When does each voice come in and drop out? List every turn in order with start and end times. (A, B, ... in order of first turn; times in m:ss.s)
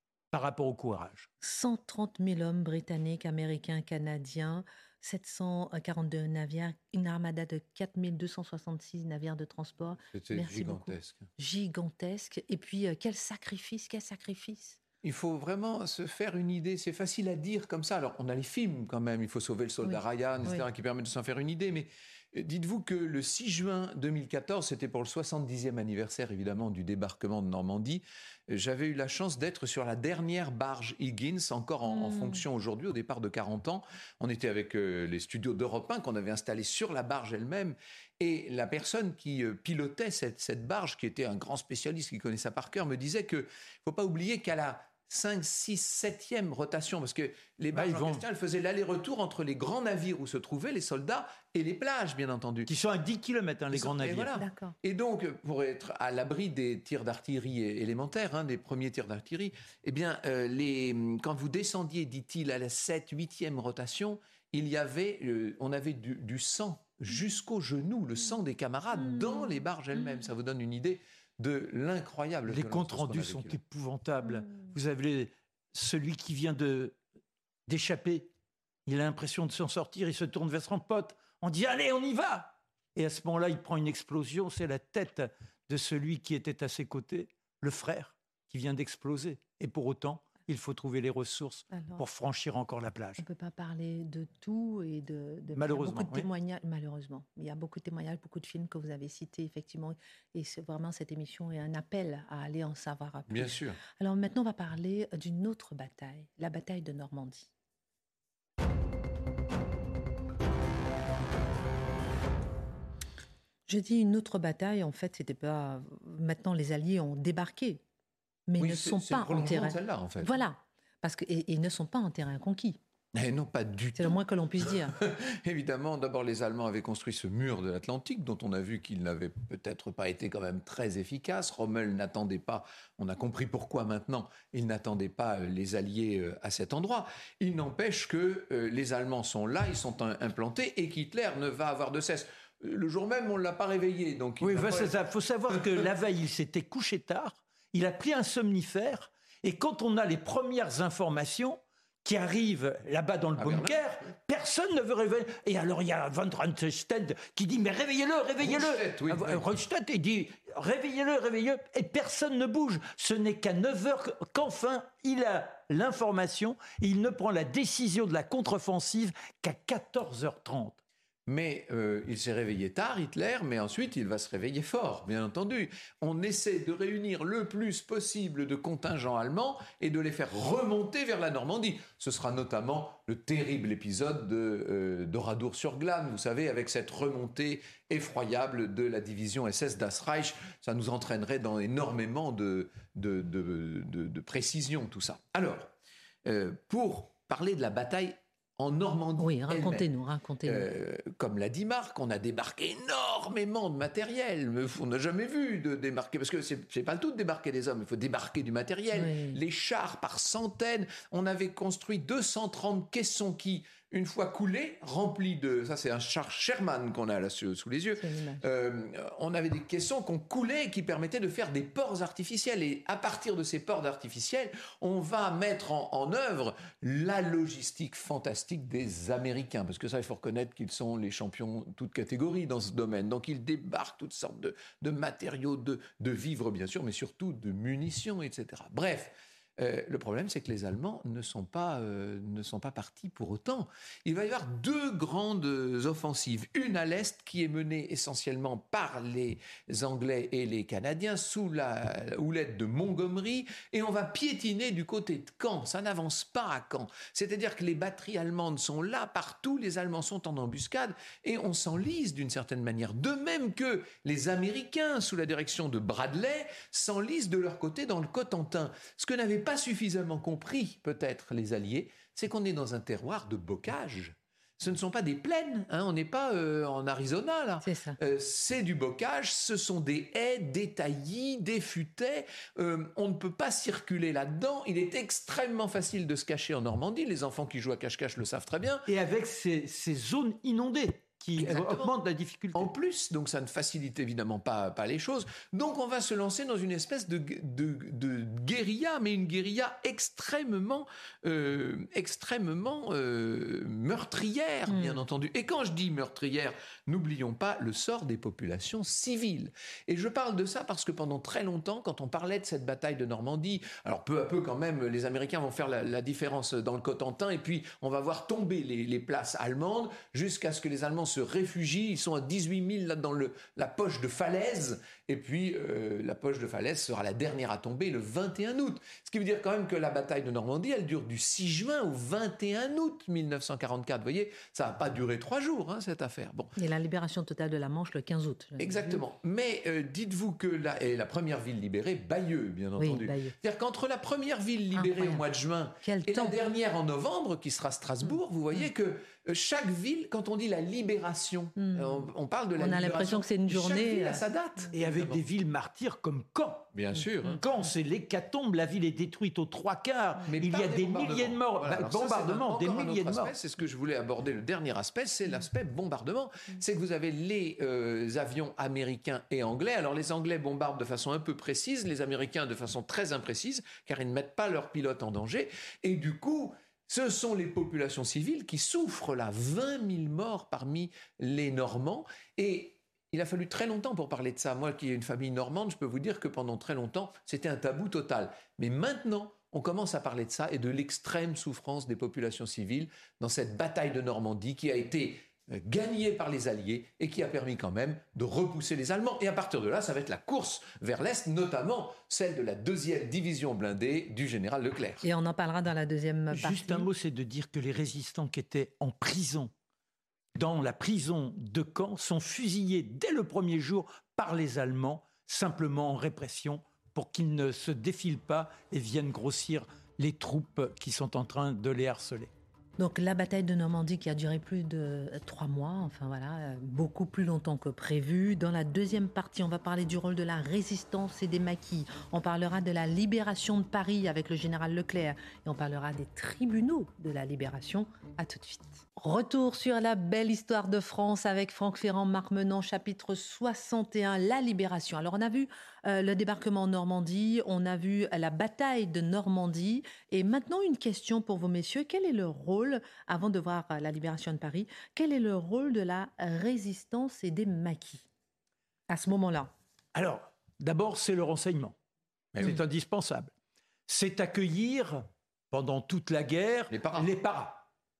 0:00.3-0:01.3 A
0:01.4-0:14.8 B
0:10.1-0:11.2 C
0:15.0-0:52.7 C
0:19.8-0:20.6 B
0:31.9-0:32.4 B
0:47.7-0:48.2 A
0:52.7-0:54.3 A
0:53.7-1:13.6 C
0:54.4-0:54.7 B
1:12.5-1:17.0 A
1:17.7-1:18.3 A
1:18.8-1:33.2 A
1:31.7-1:32.0 B
1:33.2-1:47.5 B
1:35.5-1:36.3 A
1:43.3-1:43.8 C
1:53.7-1:57.8 B
1:58.5-2:02.8 B
1:58.6-2:00.4 C
2:03.1-2:24.9 C
2:04.0-2:04.9 B
2:24.4-2:50.8 A
2:25.5-2:25.8 C
2:33.4-2:33.8 C
2:38.4-2:39.4 C
2:51.3-3:15.7 C
3:16.2-3:19.9 C
3:19.2-3:20.7 B
3:20.4-4:48.9 C
3:28.9-3:29.4 B
3:38.0-3:38.4 B
4:37.6-4:38.0 B
4:48.9-4:52.7 A
4:51.4-4:51.9 C
4:52.5-5:36.6 C
5:04.7-5:05.0 B
5:36.6-5:39.0 B
5:38.6-5:55.2 C
5:42.8-5:43.3 B
5:44.7-5:45.2 B
5:45.8-5:46.3 B
5:51.6-5:52.0 B
5:52.6-5:54.2 B
5:54.7-6:03.3 A
5:56.7-5:57.4 C
6:00.3-6:45.0 C
6:45.0-6:46.9 B
6:46.3-6:49.5 A
6:50.4-7:02.3 A
7:02.8-7:38.0 B
7:38.9-7:39.5 B
7:39.9-7:41.8 A
7:42.4-7:43.3 A
7:43.9-7:47.7 A
7:46.7-7:47.1 C